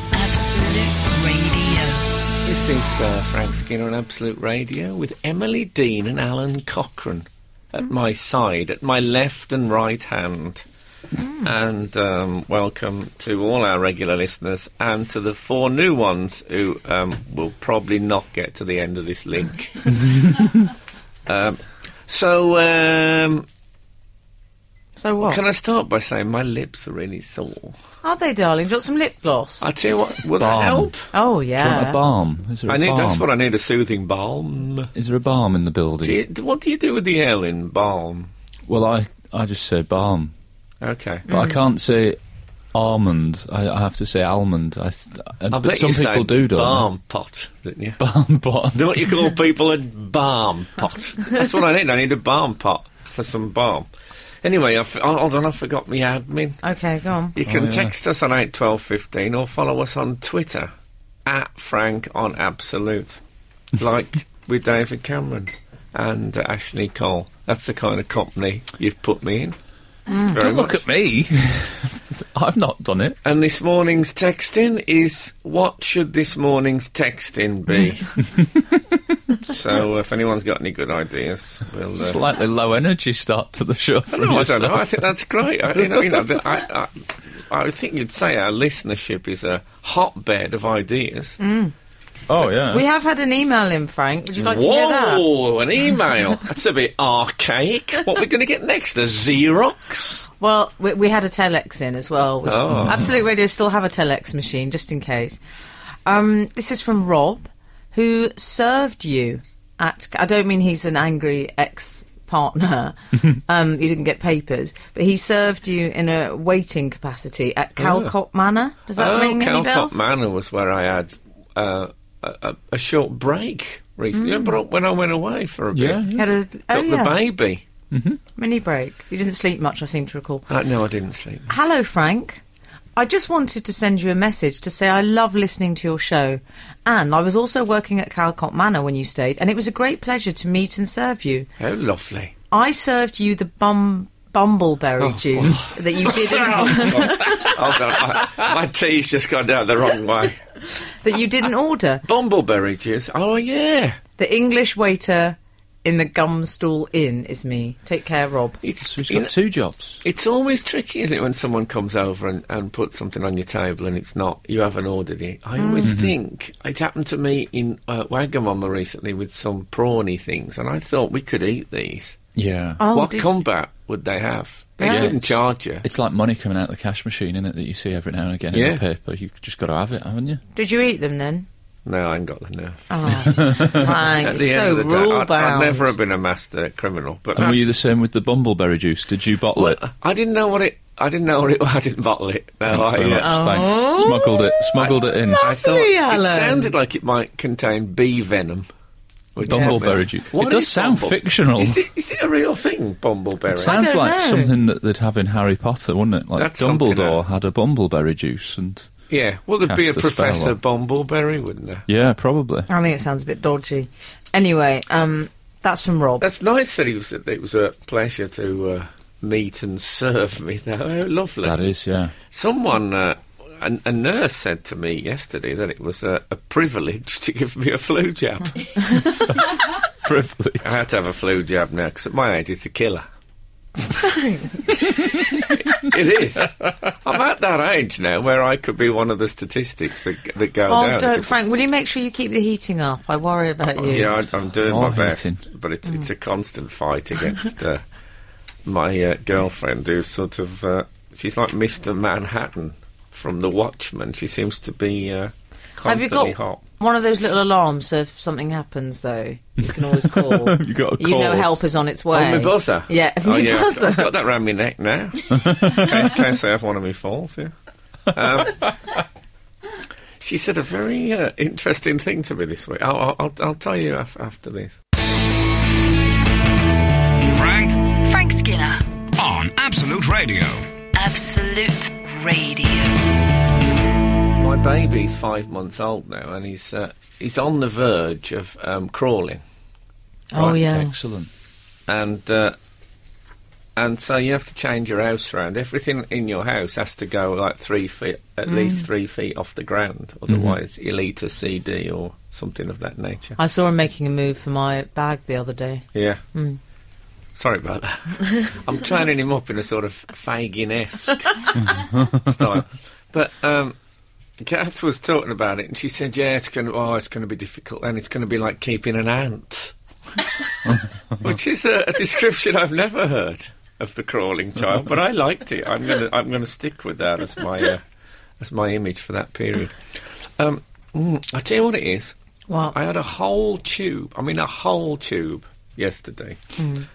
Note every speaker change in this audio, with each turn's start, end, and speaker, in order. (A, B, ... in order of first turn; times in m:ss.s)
0:00.1-0:02.0 A
0:02.4-0:10.6 B
0:11.2-0:11.5 C
0:11.4-0:20.3 B
0:21.2-0:23.4 B
0:25.0-0:25.4 C
0:25.2-0:27.8 B
0:28.0-0:29.7 C
0:29.6-0:31.1 B
0:30.4-0:30.9 D
0:31.1-0:32.0 C
0:31.6-0:33.2 D
0:32.7-0:34.9 B
0:34.9-0:36.2 D
0:36.0-0:38.3 B
0:38.7-0:40.3 D
0:40.8-0:41.3 B
0:41.3-0:41.6 C
0:41.3-0:42.2 D
0:42.7-0:46.9 D
0:45.5-0:48.0 B
0:48.0-0:49.1 D
0:48.7-0:53.9 B
0:54.4-0:56.6 B
0:56.6-0:57.4 C
0:57.3-1:00.7 B
0:57.4-0:57.9 D
1:01.2-1:03.2 B
1:03.7-1:09.6 B
1:10.1-1:10.4 C
1:10.3-1:10.8 B
1:10.3-1:13.2 D
1:13.2-1:18.2 B
1:19.4-1:22.2 B
1:21.9-1:25.0 D
1:24.1-1:31.4 B
1:25.8-1:26.2 D
1:31.4-1:31.7 C
1:32.3-1:32.8 D
1:32.7-1:35.2 C
1:34.4-1:40.3 B
1:40.4-1:45.4 C
1:42.4-1:43.2 B
1:42.7-1:43.1 D
1:46.0-2:00.0 C
1:57.8-1:58.1 B
1:59.0-2:06.1 B
2:04.1-2:04.6 C
2:05.7-2:06.3 D
2:06.1-2:07.2 C
2:06.7-2:07.6 B
2:07.9-2:08.2 D
2:08.4-2:10.5 C
2:10.5-2:11.6 B
2:11.5-2:12.4 C
2:13.0-2:21.5 C
2:21.6-2:22.3 B
2:22.5-2:27.5 C
2:25.0-2:30.4 B
2:30.8-2:32.0 C
2:32.0-2:34.0 B
2:34.2-2:38.6 C
2:38.6-2:39.3 B
2:38.8-2:40.0 D
2:40.0-2:52.2 B
2:45.6-2:45.9 C
2:45.8-2:46.1 D
2:52.4-2:52.8 D
2:52.8-2:53.4 C
2:52.9-2:55.8 B
2:54.8-2:55.2 C
2:54.8-3:00.4 D
2:58.5-2:58.8 B
3:00.5-3:01.5 C
3:01.8-3:07.6 B
3:02.9-3:05.9 C
3:03.2-3:03.9 D
3:07.4-3:09.8 D
3:09.5-3:13.4 B
3:12.6-3:15.4 D
3:13.2-3:14.7 C
3:14.8-3:18.7 B
3:15.3-3:16.7 C
3:19.3-3:23.8 B
3:19.4-3:20.0 C
3:19.4-3:21.8 D
3:23.5-3:28.9 D
3:23.6-3:24.5 C
3:26.3-3:27.2 B
3:29.1-3:31.9 B
3:29.6-3:30.5 D
3:31.9-3:32.7 D
3:32.7-3:36.2 C
3:36.2-3:41.6 B
3:41.4-3:42.1 D
3:42.3-3:49.0 B
3:50.0-3:50.6 D
3:50.6-3:53.0 B
3:54.0-3:54.7 C
3:55.5-4:01.3 B
4:00.7-4:04.1 C
4:03.7-4:07.8 B
4:04.6-4:05.4 D
4:08.6-4:16.6 B
4:15.8-4:24.1 C
4:19.6-4:21.6 D
4:22.1-4:27.5 B
4:25.3-4:26.0 D
4:28.1-4:28.6 B
4:30.2-4:34.8 B
4:37.2-4:38.0 E
4:38.0-4:38.8 A
4:39.2-4:40.7 E
4:40.9-4:43.1 A
4:44.3-4:49.4 B
4:50.3-4:50.9 C
4:50.4-4:51.3 D
4:51.9-4:52.6 B
4:53.8-5:03.4 B
4:58.5-4:58.8 C
5:00.3-5:00.6 D
5:03.4-5:06.6 C
5:05.9-5:06.2 B
5:07.3-5:13.8 B
5:08.2-5:08.5 C
5:11.6-5:12.4 D
5:14.4-5:27.8 B
5:20.7-5:21.2 D
5:28.4-5:32.1 B
5:32.5-5:32.7 C
5:32.7-5:36.4 B
5:36.6-5:36.8 C